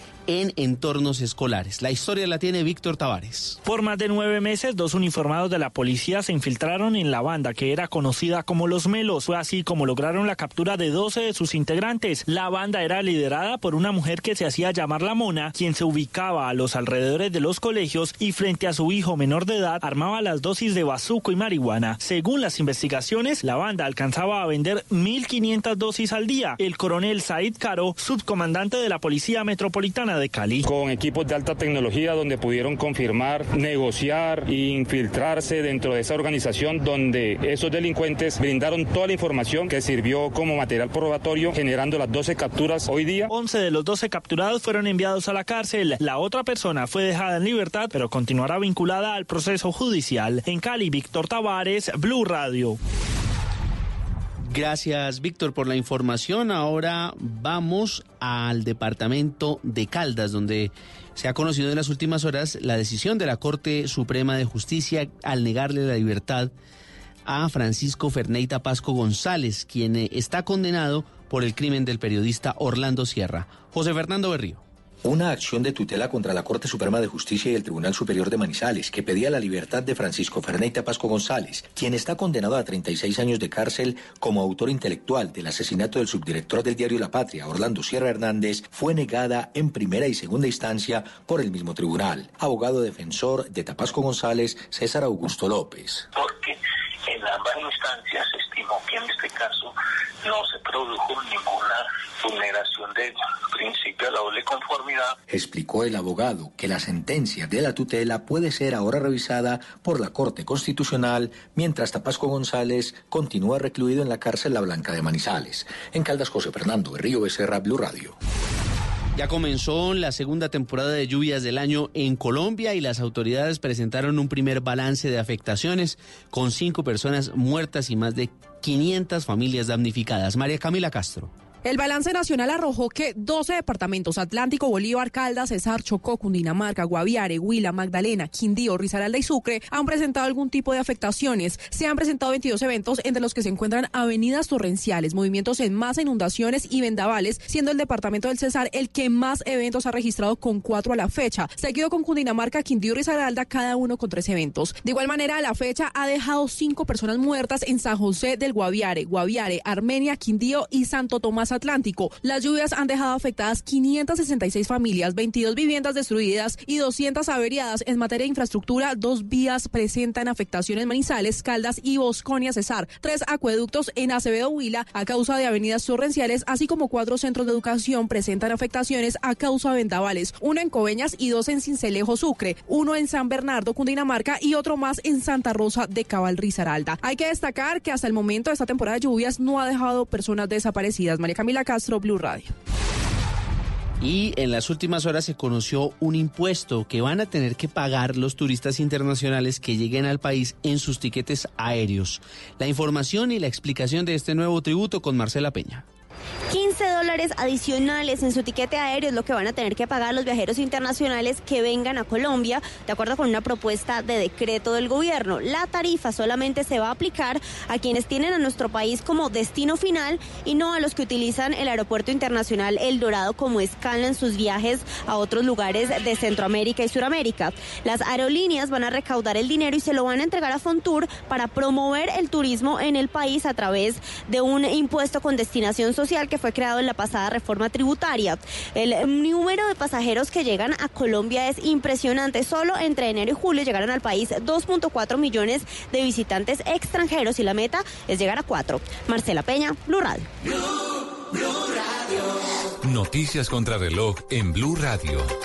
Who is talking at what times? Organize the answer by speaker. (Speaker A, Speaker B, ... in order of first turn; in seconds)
Speaker A: 0.3-3.6, 54.5-66.5, 67.2-74.6, 119.1-131.3, 194.0-205.8
Speaker B: 3.6-30.7, 43.3-52.8
Speaker C: 30.6-43.3
Speaker D: 75.0-96.1, 105.3-118.2
Speaker E: 96.1-105.1
Speaker F: 131.6-192.5
Speaker G: 206.5-250.3
Speaker H: 252.8-255.3